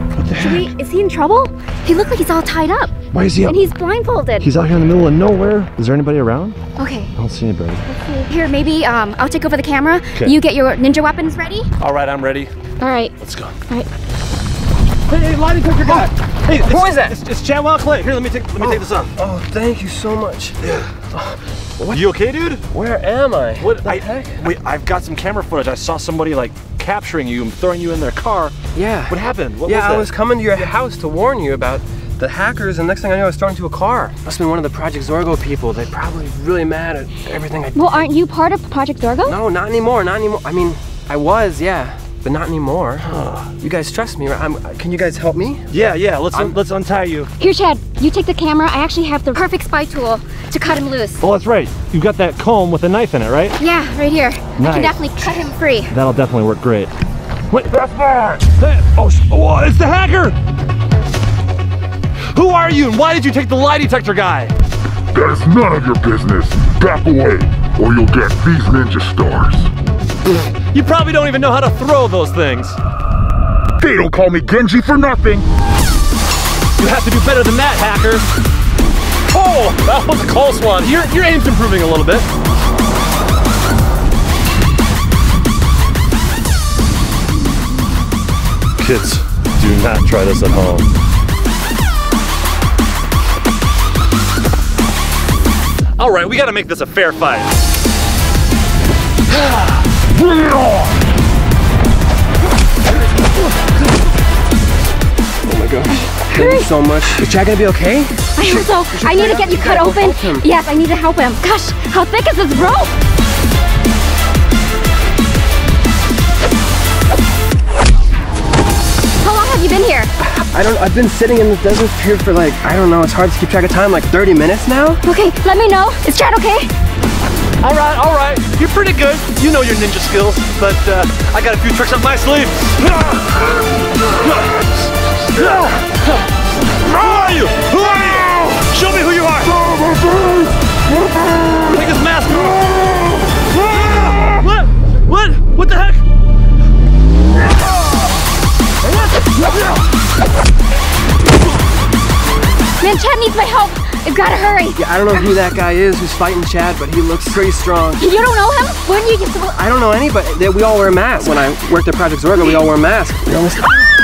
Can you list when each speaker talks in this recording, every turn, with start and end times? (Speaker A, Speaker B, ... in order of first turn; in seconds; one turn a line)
Speaker A: 0.1-0.7
Speaker B: 0.3-2.9
Speaker A: 3.1-3.6
Speaker B: 3.5-4.5
Speaker A: 4.4-6.6
Speaker B: 6.8-7.1
Speaker A: 7.2-7.8
Speaker B: 7.9-11.7
Speaker A: 11.8-12.5
Speaker B: 12.8-13.1
Speaker A: 13.2-13.6
Speaker A: 15.1-19.1
Speaker C: 15.9-17.2
Speaker C: 18.6-20.6
Speaker A: 20.6-20.9
Speaker C: 21.1-22.0
Speaker A: 21.8-22.6
Speaker C: 22.7-24.4
Speaker A: 23.6-28.5
Speaker C: 28.8-38.1
Speaker A: 29.1-30.1
Speaker B: 37.7-39.4
Speaker C: 39.2-45.7
Speaker A: 43.0-43.5
Speaker A: 45.7-47.3
Speaker B: 47.4-51.2
Speaker A: 51.2-53.6
Speaker B: 53.6-55.9
Speaker A: 54.6-56.9
Speaker A: 57.5-60.4
Speaker D: 57.9-58.4
Speaker A: 62.3-64.5
Speaker D: 65.1-69.7
Speaker A: 70.3-72.8
Speaker D: 73.8-75.5
Speaker A: 76.8-78.3
Speaker A: 79.3-82.3
Speaker A: 88.8-90.9
Speaker A: 96.0-97.5
Speaker C: 105.4-110.5
Speaker B: 106.0-106.7
Speaker B: 108.4-112.9
Speaker B: 119.2-120.1
Speaker C: 120.2-125.0
Speaker B: 125.0-126.7
Speaker A: 127.6-133.5
Speaker A: 134.1-136.0
Speaker A: 136.8-139.6
Speaker D: 139.7-140.5
Speaker A: 141.6-142.8
Speaker A: 143.5-146.0
Speaker B: 152.8-154.8
Speaker C: 154.8-158.0
Speaker B: 158.0-159.6
Speaker C: 159.5-163.9